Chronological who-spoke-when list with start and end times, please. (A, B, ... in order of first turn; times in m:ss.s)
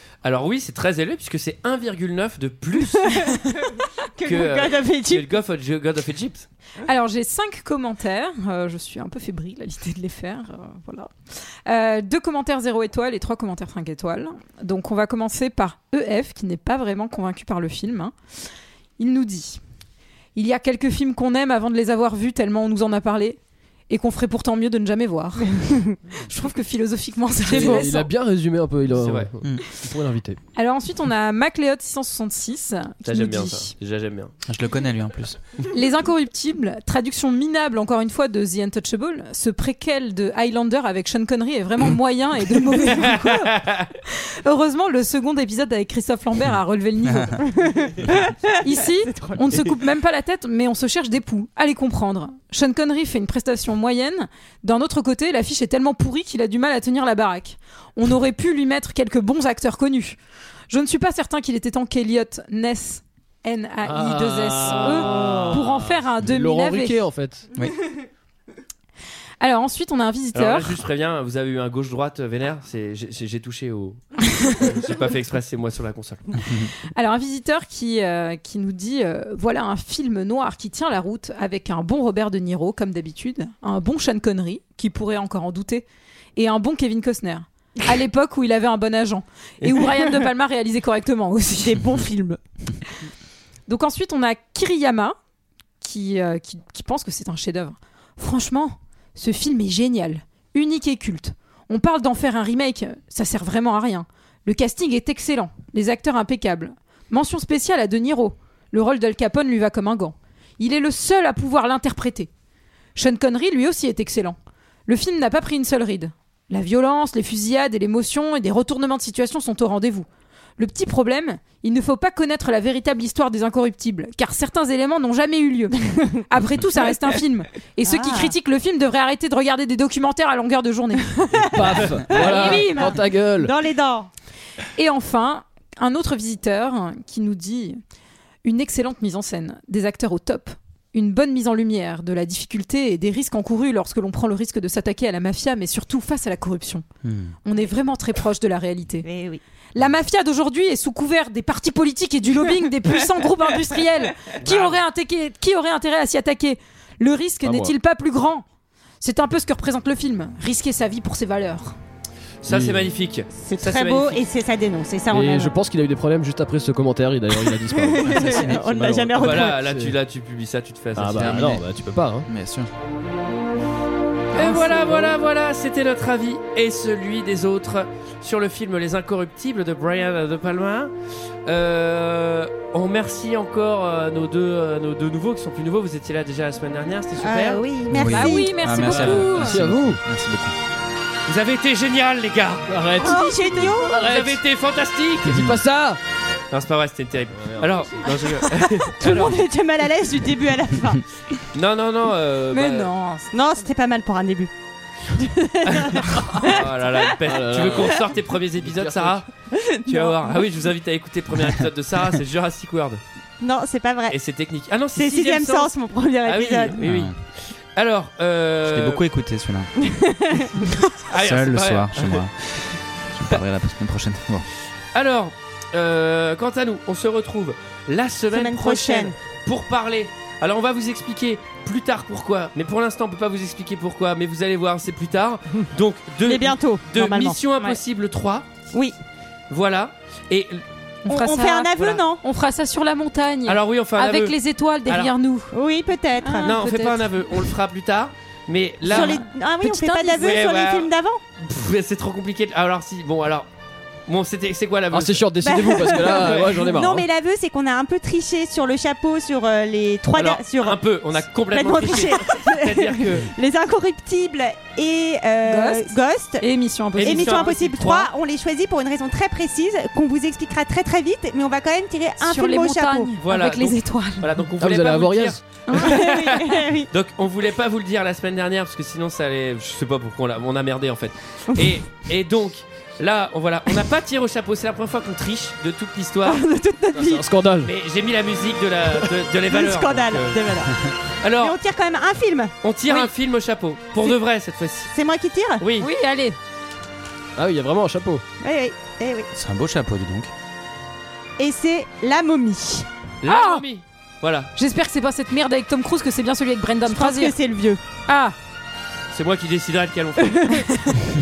0:00.2-0:03.2 A
0:03.0-0:05.2 B
0:04.2-0:06.5 A
0:06.8-0:11.1 C
0:11.6-0:18.1 C
0:19.0-0:19.6 C
0:20.3-0:23.4 C
0:23.9-0:28.1 C
0:27.4-0:30.4 D
0:28.9-0:29.3 A
0:30.6-0:33.7 C
0:33.0-0:34.3 A
0:34.5-0:35.4 E
0:35.7-0:47.8 C
0:43.0-0:43.9 A
0:47.6-0:49.6 B
0:48.6-1:00.2 C
1:00.7-1:07.0 C
1:03.8-1:07.5 D
1:09.4-1:10.8 C
1:10.3-1:16.2 A
1:14.3-1:14.6 C
1:16.4-1:16.7 E
1:16.9-1:25.8 C
1:26.4-1:31.8 C
1:29.6-1:30.0 B
1:31.6-1:32.4 B
1:33.7-1:35.1 C
1:35.8-1:52.3 C
1:53.0-1:54.4 C
1:54.9-2:00.0 C
2:00.6-2:13.0 C
2:06.0-2:06.2 B
2:07.8-2:08.3 B
2:11.3-2:13.5 D
2:12.0-2:14.1 B
2:14.8-2:17.8 C
2:18.4-2:26.8 C
2:27.0-2:27.3 E
2:27.4-2:29.1 C
2:29.0-2:29.4 B
2:29.7-2:38.4 C
2:34.4-2:34.8 A
2:37.4-2:37.7 D
2:39.0-2:41.8 C
2:42.4-2:44.2 A
2:42.5-2:42.9 D
2:43.4-2:45.6 B
2:45.1-2:50.0 D
2:47.4-2:49.6 B
2:48.0-2:48.6 E
2:49.2-2:51.5 A
2:51.0-2:52.3 D
2:51.1-2:51.6 E
2:52.2-2:52.7 E
2:54.3-2:55.1 C
2:54.3-3:00.9 A
3:01.4-3:07.6 A
3:07.2-3:08.8 B
3:07.9-3:10.5 E
3:08.1-3:09.6 C
3:08.9-3:09.2 A
3:09.2-3:10.0 D
3:11.3-3:12.7 A
3:12.7-3:14.4 D
3:13.0-3:14.1 B
3:13.9-3:15.4 A
3:15.2-3:16.0 D
3:15.3-3:15.6 E
3:16.5-3:19.4 A
3:17.3-3:18.4 D
3:18.8-3:21.0 B
3:21.5-3:22.9 A
3:22.5-3:23.6 C
3:23.3-3:24.5 B
3:25.1-3:26.5 B
3:25.7-3:29.2 A
3:27.2-3:29.2 D
3:29.5-3:30.4 B
3:29.8-3:33.0 A
3:33.4-3:34.2 B
3:34.1-3:37.1 A
3:34.9-3:36.8 B
3:36.8-3:37.1 E
3:37.7-3:39.0 A
3:38.6-3:39.7 E
3:39.8-3:40.7 B
3:41.0-3:42.2 A
3:41.2-3:44.5 E
3:44.9-3:58.5 A
3:48.3-3:49.2 B
3:56.2-3:57.4 B
3:59.5-4:00.6 A
4:01.0-4:05.5 C
4:01.1-4:02.2 B
4:03.4-4:04.3 A
4:04.8-4:05.1 A
4:05.5-4:06.6 B
4:06.2-4:07.2 C
4:06.4-4:09.2 A
4:08.8-4:11.2 B
4:08.9-4:10.4 C
4:10.1-4:13.5 A
4:14.1-4:15.3 A
4:14.9-4:17.0 D
4:15.4-4:26.5 B
4:15.9-4:16.7 A
4:20.1-4:23.3 A
4:25.5-4:27.5 C
4:27.0-4:28.1 A
4:27.0-4:33.1 B
4:32.2-4:34.4 C
4:33.2-4:46.4 A
4:34.6-4:35.4 D
4:35.7-4:36.3 C
4:35.7-4:36.9 B
4:46.2-4:47.2 B
4:46.9-4:47.7 D
4:47.6-4:50.4 A
4:49.5-4:50.7 B
4:51.2-4:51.6 A
4:51.4-4:53.1 B
4:52.6-4:54.9 A
4:54.9-4:55.6 B
4:55.6-4:55.9 A
4:55.8-4:56.4 C
4:57.4-4:58.2 D
4:58.4-4:59.3 B
4:59.3-5:00.3 E
5:01.4-5:02.9 B
5:03.2-5:04.5 A
5:03.3-5:03.6 C
5:04.6-5:07.3 C
5:06.8-5:07.8 B
5:08.1-5:08.4 C
5:09.1-5:10.6 A
5:10.5-5:11.0 C